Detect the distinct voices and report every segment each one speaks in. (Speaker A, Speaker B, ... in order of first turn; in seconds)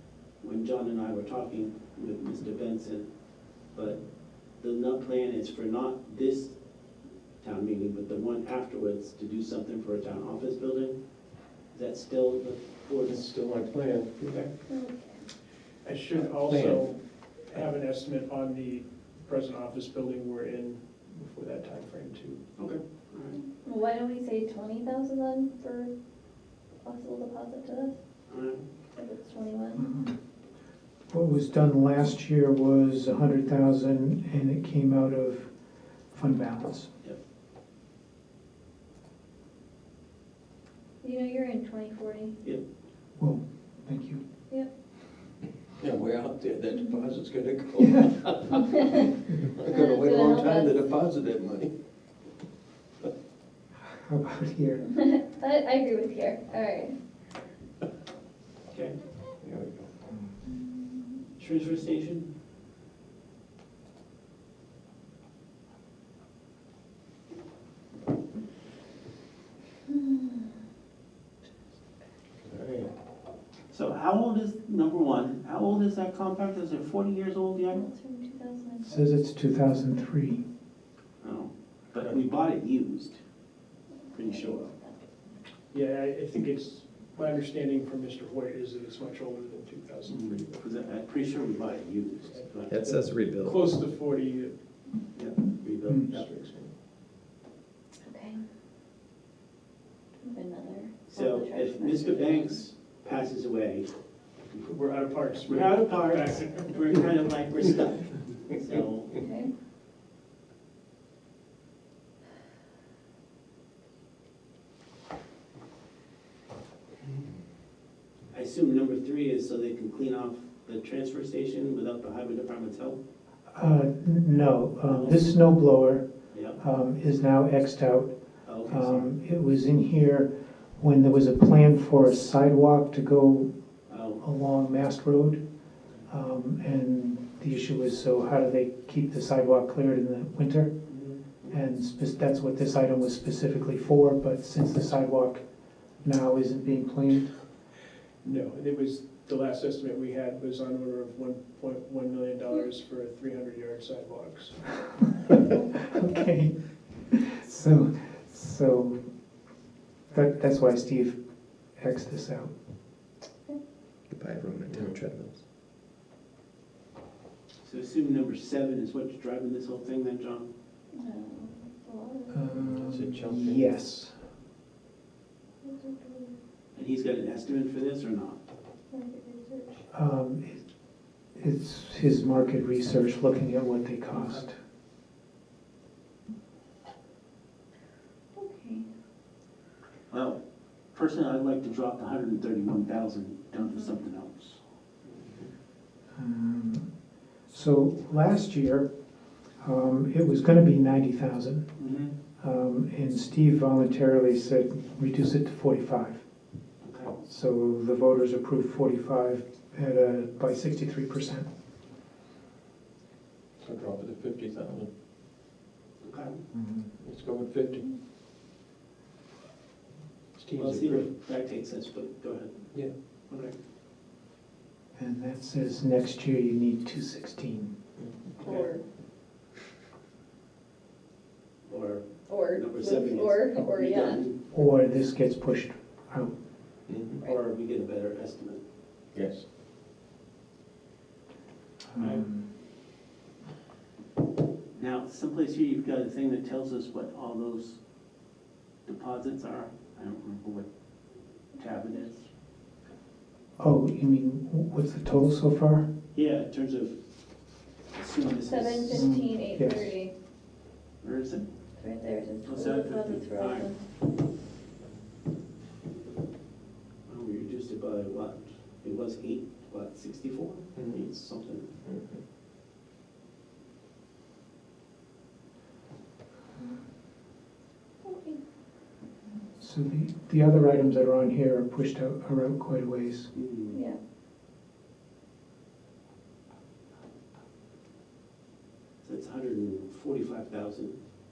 Speaker A: 0.4-3.1, 3.7-4.0, 4.6-6.6, 7.4-11.0, 11.7-13.2, 14.2-14.5, 22.6-23.4, 28.3-28.7, 58.7-59.0, 61.4-62.3, 73.7-77.9, 81.2-83.2, 84.1-84.7, 90.1-92.8, 95.2-96.3, 101.1-103.9, 105.5-109.2, 118.3-123.0, 124.9-125.2, 126.3-126.6, 128.4-129.2, 133.9-134.2, 140.9-141.5, 167.6-170.5, 176.8-178.4, 184.2-184.5, 190.1-190.4, 190.9-194.6, 201.8-202.2, 206.8-207.1, 216.0-216.4, 220.6-222.7, 223.3-223.5, 228.4-228.7, 231.7-234.7, 237.2-238.6, 242.0-242.2, 244.8-247.8, 248.9-250.7, 251.6-252.3, 256.1-257.0, 257.9-259.1, 261.0-261.5, 262.4-263.7, 267.1-271.7, 283.3-283.8, 289.0-291.0
Speaker B: 13.0-14.4, 16.1-16.9, 45.8-48.8, 49.5-51.7, 59.4-59.9, 72.4-72.9, 96.1-96.7, 164.7-165.0, 172.6-173.8, 195.2-195.5, 213.6-214.9, 217.0-217.8, 220.4-221.1, 228.0-228.3, 236.9-237.2, 239.1-239.4, 270.8-271.1, 271.8-272.2
Speaker C: 14.7-15.2, 23.6-25.9, 26.8-28.0, 29.0-29.9, 41.0-42.4, 48.5-48.9, 49.6-50.7, 54.9-57.0, 60.5-61.2, 69.9-70.5, 77.7-78.9, 84.1-85.0, 98.0-98.4, 100.2-102.6, 109.2-109.5, 170.9-172.7, 175.6-176.4, 178.9-179.8, 188.3-188.8, 228.4-228.8, 232.3-234.2, 258.5-260.1, 261.8-263.8, 278.0-278.4, 283.7-284.0
Speaker D: 15.8-22.4, 85.7-90.6, 92.3-94.5, 96.2-96.5, 104.6-107.0, 148.2-154.8
Speaker E: 29.8-30.2, 31.1-35.5, 36.1-36.9, 43.2-44.2, 47.8-48.1, 53.9-54.9, 78.8-80.4, 95.9-96.1, 123.5-133.5, 134.2-135.4, 136.1-140.7, 141.5-145.4, 146.0-147.3, 155.9-159.0, 160.1-161.2, 161.7-162.5, 172.3-174.2, 179.9-180.6, 181.3-184.6, 196.1-198.9, 199.6-201.7, 202.4-206.2, 207.2-211.5, 216.5-216.9, 225.0-227.8, 234.5-236.3, 241.9-242.5, 253.6-255.9, 258.9-259.9, 279.6-283.3
Speaker F: 92.7-93.8, 164.1-165.3